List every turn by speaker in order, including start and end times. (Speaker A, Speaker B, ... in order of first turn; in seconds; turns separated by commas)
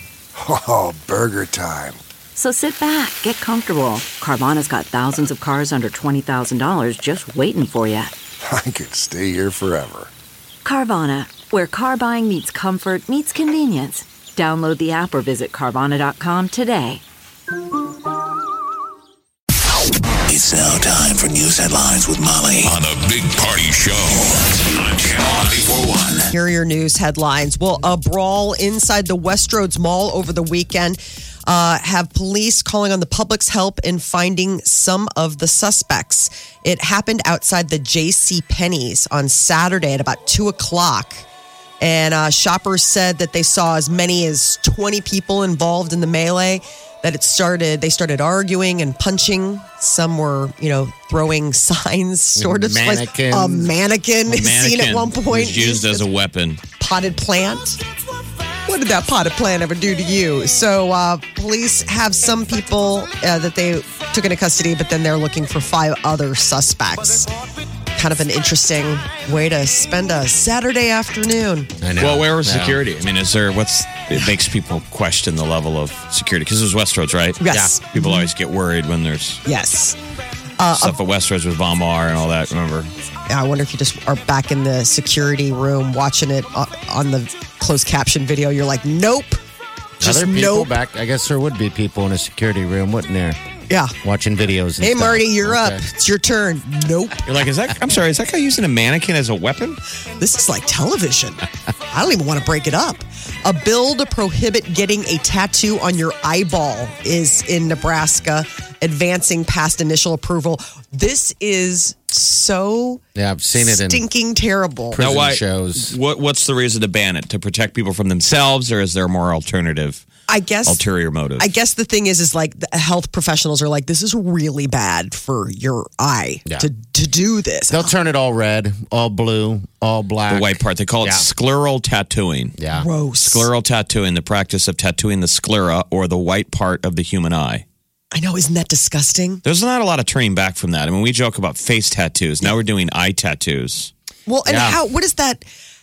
Speaker A: 0.3-2.0, Speaker B: 2.3-8.1, Speaker A: 8.4-10.1, Speaker B: 10.6-17.0, Speaker C: 20.3-26.3, Speaker D: 26.3-41.2, Speaker D: 41.8-56.0, Speaker E: 52.4-53.7, Speaker F: 54.3-56.6, Speaker D: 56.8-57.8, Speaker D: 58.6-67.3, Speaker D: 67.9-71.7, Speaker E: 71.8-72.8, Speaker F: 72.0-79.4, Speaker D: 77.4-78.3, Speaker D: 79.4-80.0, Speaker D: 80.6-81.0, Speaker F: 80.8-82.9, Speaker D: 83.3-89.4, Speaker E: 90.0-93.4, Speaker D: 90.0-90.7, Speaker E: 94.0-95.8, Speaker D: 94.8-97.2, Speaker F: 97.2-99.8, Speaker D: 100.2-113.0, Speaker E: 113.2-114.0, Speaker D: 113.5-115.0, Speaker E: 114.9-115.9, Speaker F: 115.0-120.0, Speaker D: 120.3-120.8, Speaker F: 120.7-121.5, Speaker D: 121.4-127.9, Speaker E: 127.7-131.2, Speaker F: 130.3-132.6, Speaker E: 132.6-132.8, Speaker D: 132.7-133.5, Speaker F: 133.2-137.6, Speaker D: 138.1-139.4, Speaker F: 139.4-143.9, Speaker D: 144.3-145.4, Speaker E: 144.5-144.8